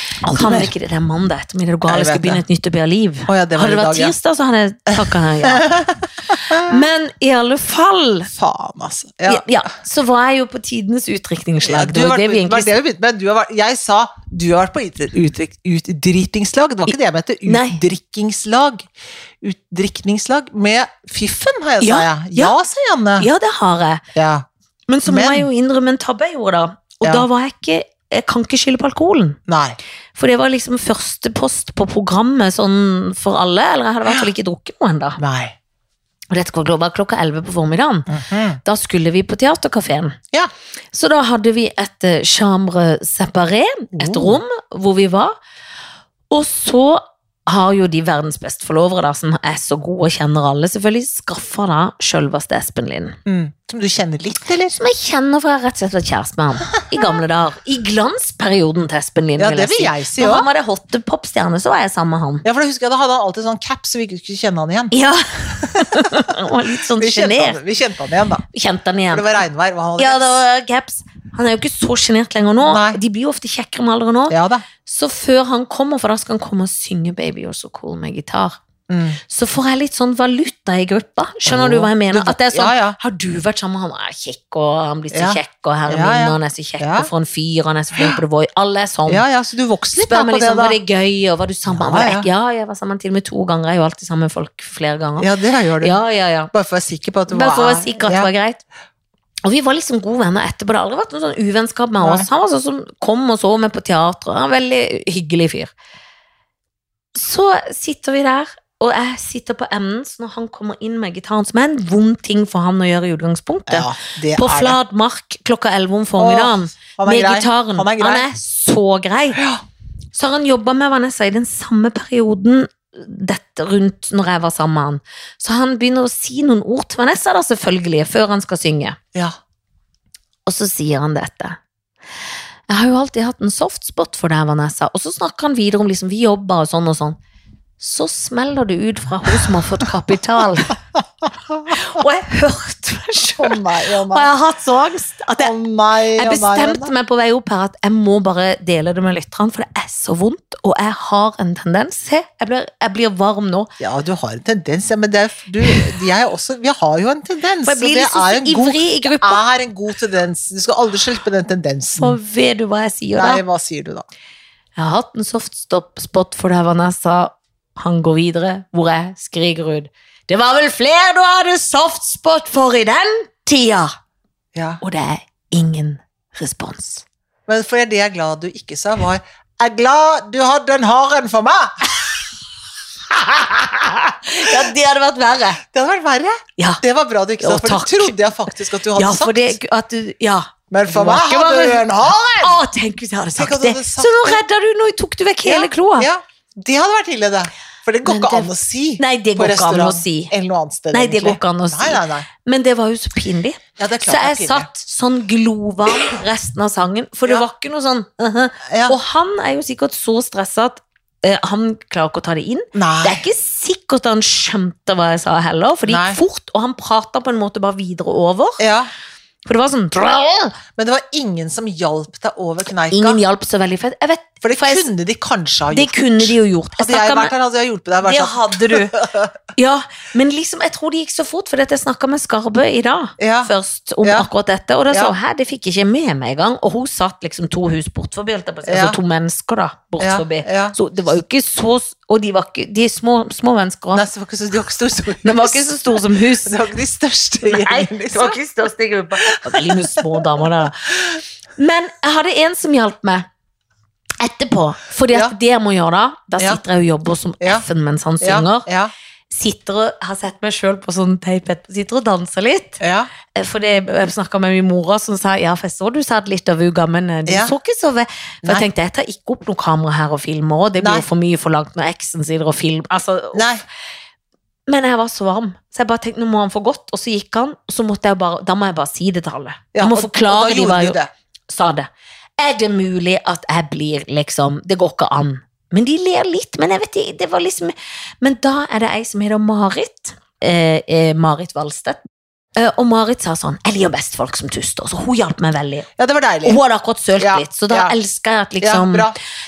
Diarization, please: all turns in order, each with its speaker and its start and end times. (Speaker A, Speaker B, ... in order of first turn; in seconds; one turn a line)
Speaker A: 0.2-0.7
Speaker B: 0.3-5.7
Speaker A: 1.9-2.4
Speaker A: 3.3-4.1
Speaker A: 5.0-6.8
Speaker B: 6.3-8.3
Speaker A: 8.3-9.4
Speaker B: 9.3-12.7
Speaker A: 11.6-18.9
Speaker B: 17.4-17.8
Speaker A: 19.4-23.3
Speaker B: 21.8-22.5
Speaker B: 23.2-24.0
Speaker A: 24.1-24.4
Speaker B: 24.9-29.4
Speaker A: 25.1-25.5
Speaker A: 29.5-29.8
Speaker B: 30.1-35.2
Speaker A: 35.2-35.5
Speaker B: 36.3-38.1
Speaker A: 38.1-38.6
Speaker B: 38.6-40.2
Speaker B: 40.9-45.4
Speaker A: 44.0-44.4
Speaker B: 46.3-53.1
Speaker A: 53.2-54.8
Speaker B: 54.8-62.4
Speaker A: 59.4-60.5
Speaker A: 62.4-64.9
Speaker B: 64.9-67.6
Speaker A: 65.5-66.3
Speaker A: 67.0-68.4
Speaker B: 68.5-69.3
Speaker A: 69.1-70.4
Speaker B: 70.0-78.6
Speaker A: 72.6-73.0
Speaker A: 74.3-74.6
Speaker A: 78.9-79.2
Speaker B: 79.2-89.2
Speaker A: 81.4-83.0
Speaker A: 85.1-87.1
Speaker A: 89.1-90.8
Speaker B: 89.9-95.3
Speaker A: 91.7-92.3
Speaker A: 95.2-95.9
Speaker B: 95.8-96.5
Speaker A: 96.5-98.3
Speaker B: 97.3-98.6
Speaker B: 99.4-105.7
Speaker A: 102.0-102.3
Speaker B: 107.1-119.4
Speaker A: 113.7-114.8
Speaker A: 116.2-118.3
Speaker A: 119.3-119.6
Speaker B: 120.1-129.0
Speaker B: 130.4-131.6
Speaker B: 132.7-137.2
Speaker B: 137.8-140.8
Speaker B: 141.7-145.5
Speaker A: 143.3-144.3
Speaker A: 145.4-146.9
Speaker B: 146.2-153.7
Speaker A: 153.8-162.2
Speaker B: 157.6-159.4
Speaker B: 162.0-163.4
Speaker A: 163.2-164.1
Speaker B: 164.8-173.9
Speaker A: 174.5-174.8
Speaker B: 174.8-177.0
Speaker A: 177.5-181.9
Speaker A: 183.1-183.6
Speaker B: 183.2-185.6
Speaker A: 185.6-189.6
Speaker B: 186.6-186.8
Speaker B: 187.4-188.2
Speaker B: 188.9-196.1
Speaker A: 190.7-192.6
Speaker A: 193.3-194.4
Speaker A: 195.4-202.3
Speaker B: 198.0-200.3
Speaker B: 200.9-218.6
Speaker A: 203.8-204.7
Speaker A: 208.7-209.0
Speaker A: 212.7-213.2
Speaker A: 215.9-216.2
Speaker A: 218.6-218.9
Speaker B: 219.4-220.6
Speaker A: 220.8-223.2
Speaker B: 222.9-224.9
Speaker A: 224.4-229.4
Speaker B: 225.7-227.3
Speaker B: 228.0-228.9
Speaker B: 229.5-244.0
Speaker A: 233.2-233.5
Speaker A: 234.0-234.3
Speaker A: 238.7-239.0
Speaker A: 240.0-240.8
Speaker A: 243.9-248.4
Speaker B: 245.2-246.6
Speaker B: 247.4-253.3
Speaker A: 249.2-250.4
Speaker B: 254.2-258.7
Speaker A: 258.2-258.9
Speaker B: 259.3-262.8
Speaker A: 262.8-263.1
Speaker B: 263.3-273.5
Speaker A: 267.3-267.5
Speaker A: 270.8-271.1
Speaker A: 273.3-273.6
Speaker B: 274.7-292.0
Speaker A: 279.7-281.1
Speaker B: 292.6-295.9
Speaker A: 296.0-296.6
Speaker B: 296.4-299.1
Speaker A: 297.2-297.9
Speaker A: 298.6-299.2